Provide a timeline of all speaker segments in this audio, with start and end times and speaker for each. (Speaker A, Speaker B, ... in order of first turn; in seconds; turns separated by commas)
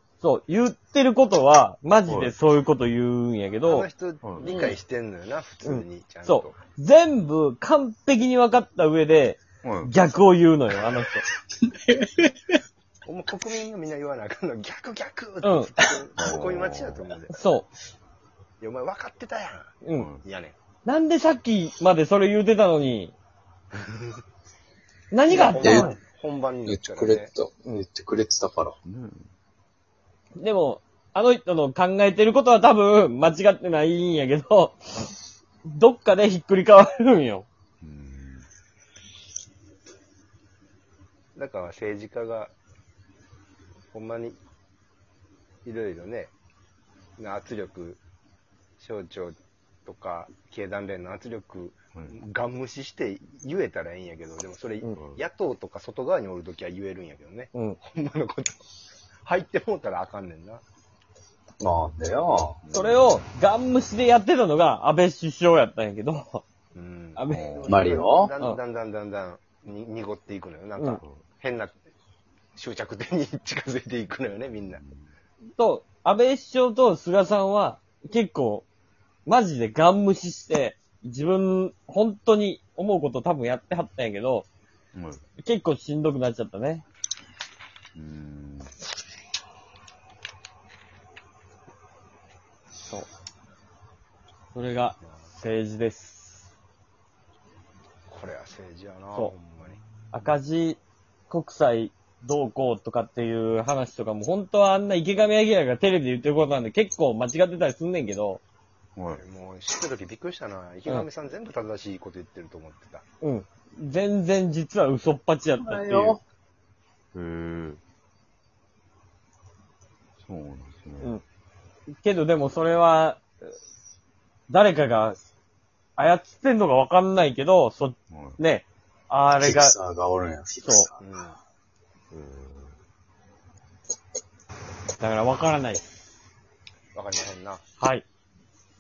Speaker A: 0.2-3.9, Speaker B: 2.1-2.4, Speaker C: 3.6-6.6, Speaker B: 4.2-4.5, Speaker A: 4.4-4.8, Speaker A: 5.6-11.3, Speaker B: 9.6-9.9, Speaker D: 11.6-12.3, Speaker C: 13.1-17.5, Speaker A: 15.4-15.7, Speaker B: 16.2-17.1, Speaker A: 17.3-17.7, Speaker C: 18.6-20.6, Speaker A: 19.8-20.1, Speaker B: 19.9-20.2, Speaker A: 20.9-23.1, Speaker A: 25.1-26.0, Speaker C: 25.3-27.3, Speaker D: 25.6-25.9, Speaker D: 26.6-28.8, Speaker B: 28.8-29.3, Speaker A: 30.4-35.1, Speaker A: 35.6-37.5, Speaker B: 37.8-38.5, Speaker C: 41.4-42.5, Speaker C: 43.9-44.4, Speaker C: 45.6-46.3, Speaker C: 47.2-48.0, Speaker C: 48.8-49.4, Speaker C: 49.9-58.6, Speaker B: 55.0-55.2, Speaker A: 57.5-57.8, Speaker C: 59.2-60.6, Speaker D: 61.6-62.6, Speaker B: 62.6-63.2, Speaker A: 62.7-66.4, Speaker C: 66.7-71.8, Speaker A: 67.2-67.5, Speaker B: 67.3-67.7, Speaker D: 67.7-68.3, Speaker C: 72.5-74.8, Speaker B: 74.7-75.1, Speaker A: 75.5-78.7, Speaker A: 79.3-84.5, Speaker B: 84.9-85.2, Speaker A: 85.4-86.8, Speaker B: 88.0-88.7, Speaker A: 94.5-96.5, Speaker C: 95.0-95.3, Speaker C: 98.1-99.8, Speaker A: 100.1-108.4, Speaker B: 109.0-109.2, Speaker C: 109.1-113.0, Speaker A: 113.2-116.2, Speaker D: 115.6-116.2, Speaker B: 117.1-117.8, Speaker B: 120.2-121.2, Speaker A: 122.0-123.3, Speaker A: 124.5-125.2, Speaker A: 126.0-129.8, Speaker B: 128.1-128.4, Speaker D: 129.4-131.0, Speaker A: 130.6-130.9, Speaker C: 131.0-131.4, Speaker B: 132.1-132.8, Speaker A: 135.0-135.9, Speaker C: 136.9-137.6, Speaker A: 137.8-138.0